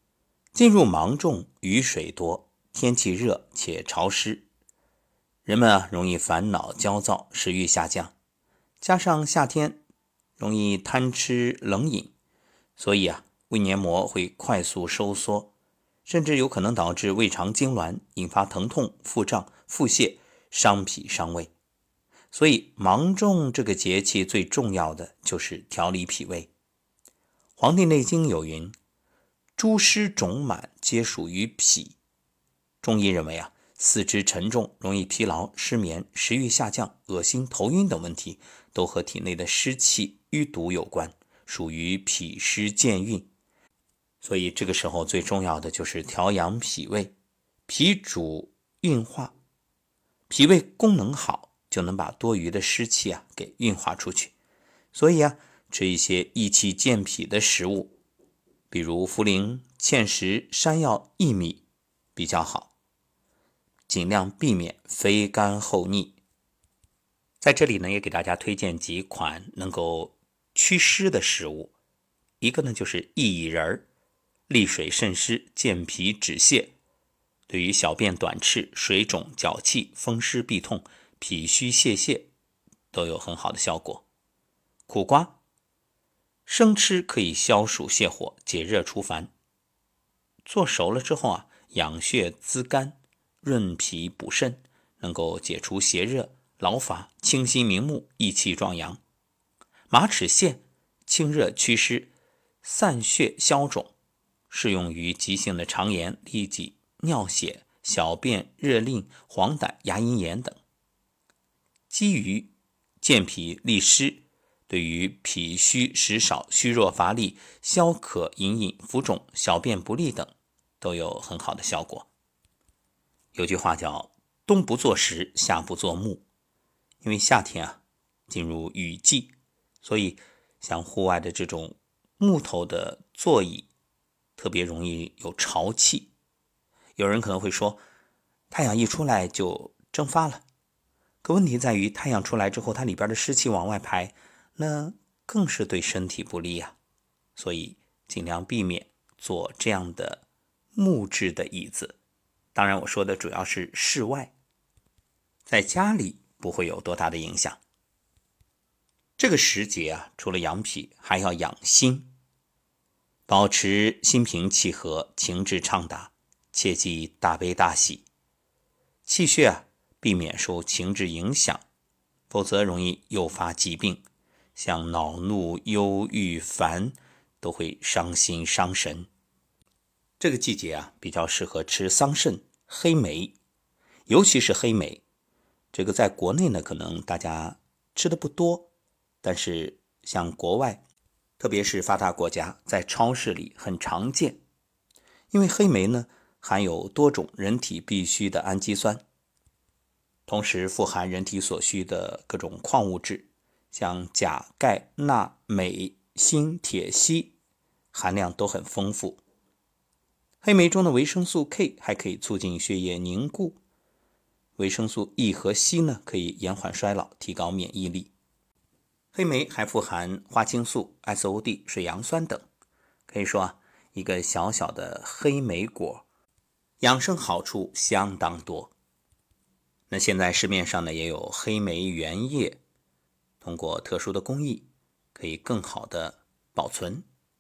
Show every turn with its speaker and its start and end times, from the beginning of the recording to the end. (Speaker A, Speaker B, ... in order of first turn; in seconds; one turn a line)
Speaker A: 0.5-4.5
Speaker A: 5.5-8.1
Speaker A: 8.8-9.8
Speaker A: 10.4-12.1
Speaker A: 12.8-15.5
Speaker A: 16.1-21.5
Speaker A: 22.3-26.5
Speaker A: 27.6-28.8
Speaker A: 29.6-32.0
Speaker A: 32.8-43.3
Speaker A: 44.2-47.1
Speaker A: 47.7-49.3
Speaker A: 50.3-54.3
Speaker A: 54.9-57.9
Speaker A: 58.7-61.6
Speaker A: 62.1-62.7
Speaker A: 63.9-66.2
Speaker A: 67.4-71.7
Speaker A: 72.4-73.9
Speaker A: 74.5-76.7
Speaker A: 77.5-82.3
Speaker A: 82.9-84.0
Speaker A: 84.9-85.4
Speaker A: 86.5-89.3
Speaker A: 90.5-99.0
Speaker A: 99.9-102.1
Speaker A: 102.6-103.9
Speaker A: 104.5-110.6
Speaker A: 111.9-122.1
Speaker A: 123.3-126.2
Speaker A: 127.0-133.7
Speaker A: 134.4-136.1
Speaker A: 137.0-137.8
Speaker A: 138.5-140.4
Speaker A: 141.2-146.8
Speaker A: 147.4-150.2
Speaker A: 150.8-152.0
Speaker A: 152.5-154.3
Speaker A: 155.5-157.6
Speaker A: 159.2-162.1
Speaker A: 163.3-168.1
Speaker A: 169.1-171.6
Speaker A: 172.3-179.1
Speaker A: 180.2-183.3
Speaker A: 184.1-185.0
Speaker A: 185.7-188.7
Speaker A: 189.2-190.8
Speaker A: 191.4-194.4
Speaker A: 195.3-199.0
Speaker A: 200.3-207.3
Speaker A: 207.9-209.2
Speaker A: 210.4-213.6
Speaker A: 214.6-218.1
Speaker A: 219.1-222.5
Speaker A: 223.1-226.1
Speaker A: 226.8-228.7
Speaker A: 229.9-232.6
Speaker A: 233.4-237.1